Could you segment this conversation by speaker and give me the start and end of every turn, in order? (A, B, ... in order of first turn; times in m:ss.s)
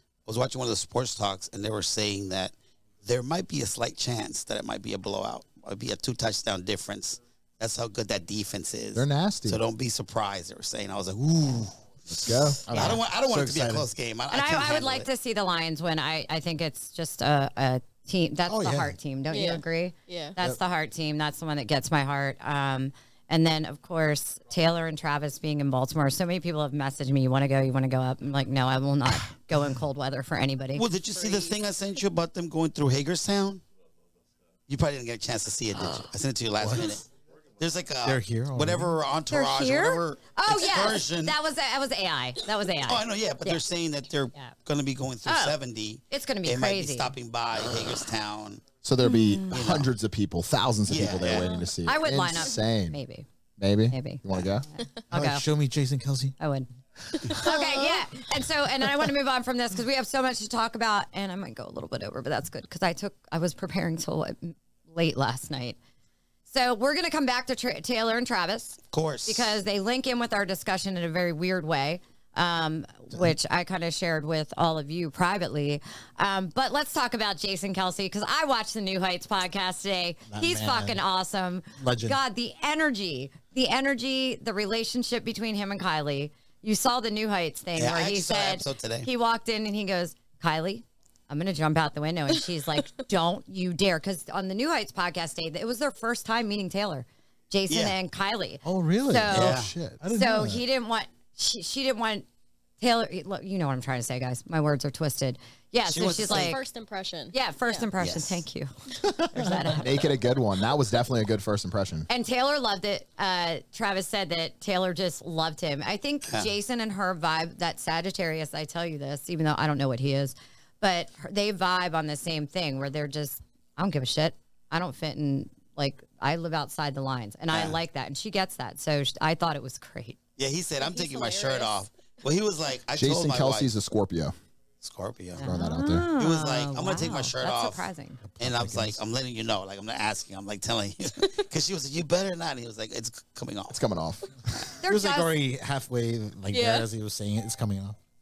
0:00.2-0:15.1 A
0:08.9-0:09.6 B
0:12.1-0:13.0 B
0:12.7-0:13.9 C
0:14.3-0:30.8 D
0:18.5-0:19.0 C
0:19.3-0:20.4 E
0:30.7-0:33.6 A
0:31.1-0:31.5 E
0:34.7-0:37.0 A
0:36.6-0:37.0 C
0:37.6-0:41.4 A
0:38.0-0:39.0 C
0:39.3-0:43.6 D
0:42.8-0:48.6 A
0:45.2-0:45.6 D
0:46.1-0:47.1 D
0:48.8-0:53.0 B
0:49.0-0:49.5 D
0:49.5-0:49.9 A
0:50.9-0:51.5 A
0:51.2-0:51.6 E
0:51.8-0:53.2 D
0:53.6-0:54.6 B
0:53.9-0:54.2 D
0:54.8-0:55.5 D
0:55.1-0:56.4 C
0:56.4-0:56.7 D
0:57.2-1:05.8 D
0:57.3-0:58.0 E
1:06.5-1:42.2 D
1:08.9-1:09.5 A
1:20.3-1:21.0 C
1:21.8-1:22.2 C
1:27.8-1:29.1 A
1:37.7-1:38.0 A
1:38.6-1:40.6 C
1:39.3-1:39.7 A
1:42.8-1:46.6 D
1:45.8-1:46.6 A
1:46.2-1:47.9 E
1:47.3-1:50.0 D
1:48.0-1:48.4 A
1:49.8-1:52.1 B
1:52.1-2:10.2 D
2:07.5-2:07.8 A
2:10.4-2:13.7 A
2:10.8-2:11.8 E
2:12.9-2:14.4 B
2:14.8-2:15.4 A
2:15.4-2:18.2 D
2:15.4-2:16.1 B
2:16.2-2:17.8 A
2:18.2-2:19.0 C
2:18.4-2:23.8 A
2:23.7-2:24.3 B
2:24.8-2:25.3 D
2:24.8-2:28.0 C
2:26.5-2:26.9 E